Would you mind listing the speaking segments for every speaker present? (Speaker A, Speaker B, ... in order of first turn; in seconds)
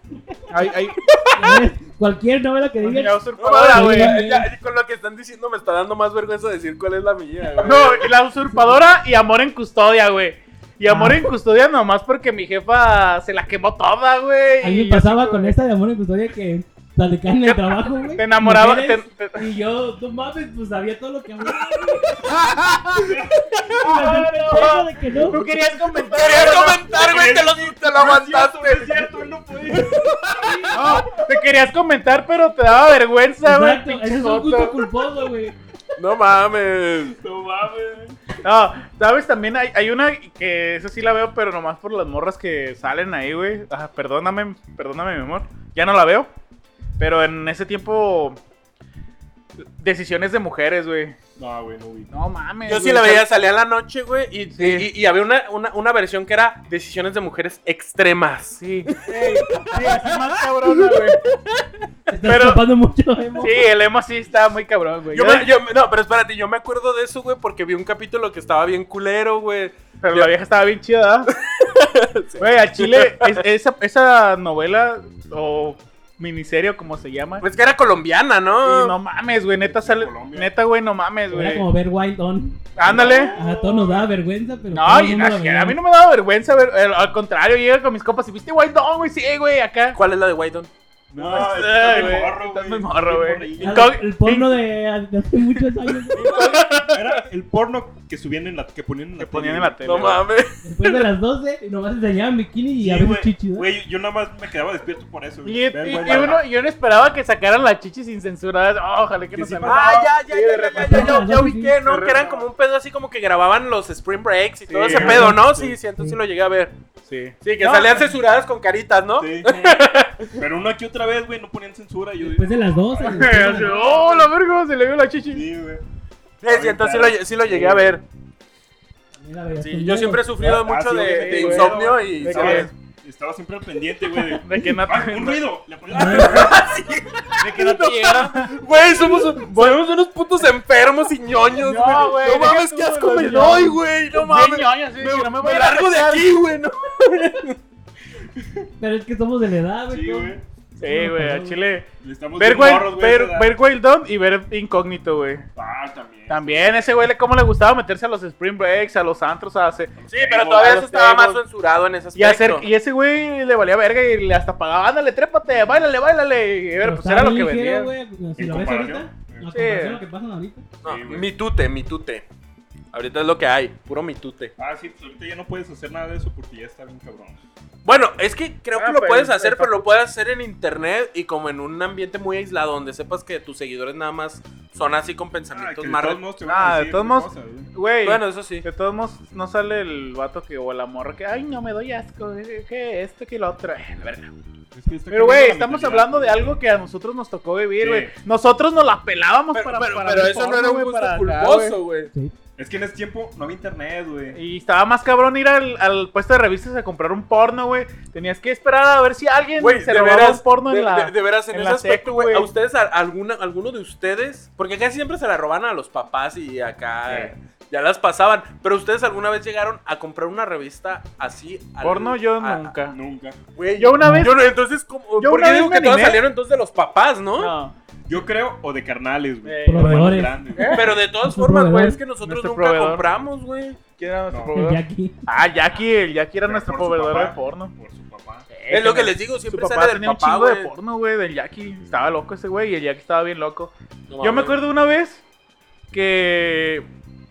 Speaker A: 0.5-1.1, 2.8-4.2, 7.6-15.6, 17.4-19.5, 22.3-23.2, 23.8-26.9, 30.7-34.9, 38.4-46.3, 47.0-48.4, 49.6-51.2, 52.1-53.3, 54.5-54.9, 58.6-61.2, 62.2-62.6, 63.4-65.5, 70.0-71.3, 72.4-77.4, 78.6-81.7, 82.8-83.3, 84.7-90.0, 91.2-94.5, 96.1-97.1, 99.2-100.2, 105.4-111.2, 111.8-112.2, 114.7-115.3, 117.0-118.1, 123.0-125.4, 131.0-132.7, 134.4-135.4, 137.4-138.6, 139.1-139.8, 141.6-146.4, 150.8-155.4, 156.3-159.9, 160.6-161.4, 162.1-167.9, 169.5-170.0, 178.7-179.9, 186.4-194.3, 195.1-201.8, 204.3-212.5, 221.8-222.9, 223.8-224.4, 225.2-226.2, 227.4-227.7, 229.4-230.9, 232.2-233.1, 234.0-237.7, 238.5-245.2, 245.9-246.9
Speaker B: 1.1-1.6, 3.4-8.1, 22.1-22.6, 23.5-23.8, 26.1-29.1, 29.7-30.8, 36.0-37.2, 52.7-61.7, 65.1-70.3, 71.4-73.4, 77.4-79.0, 89.9-90.7, 96.1-97.0, 99.8-101.0, 109.7-116.7, 117.4-120.4, 126.4-128.0, 129.6-132.7, 135.9-147.6, 160.1-162.7, 170.8-172.2, 172.9-174.5, 177.8-186.2, 188.0-188.7, 199.5-202.1, 209.6-222.7, 223.5-227.5, 230.6-233.8, 238.7-240.7, 244.1-244.6
Speaker C: 1.3-4.5, 10.8-11.2, 14.6-22.5, 23.6-25.5, 30.4-30.8, 33.4-35.5, 62.1-63.6, 81.3-82.7, 83.3-85.8, 93.6-96.3, 100.6-103.7, 110.8-111.8, 115.0-116.2, 122.2-123.8, 129.2-130.3, 135.9-136.5, 148.8-151.6, 166.8-170.7, 224.0-224.3, 229.7-232.0, 234.5-235.1
Speaker D: 22.9-23.4, 26.9-31.1, 37.2-38.2, 51.4-52.1, 79.6-80.5, 82.8-84.1, 91.1-94.0, 96.9-100.2, 102.8-106.4, 109.3-110.2, 111.8-112.4, 114.8-115.8, 119.2-119.6, 120.3-124.3, 125.3-125.8, 126.4-128.0, 130.4-136.9, 149.9-150.4, 152.0-153.5, 155.6-156.7, 160.0-160.8, 168.4-169.5, 170.8-171.3, 174.6-177.4, 185.5-187.7, 194.7-196.6, 197.8-198.1, 202.6-204.4, 217.1-217.3, 222.9-223.4, 228.1-230.9, 234.3-234.6, 236.4-238.5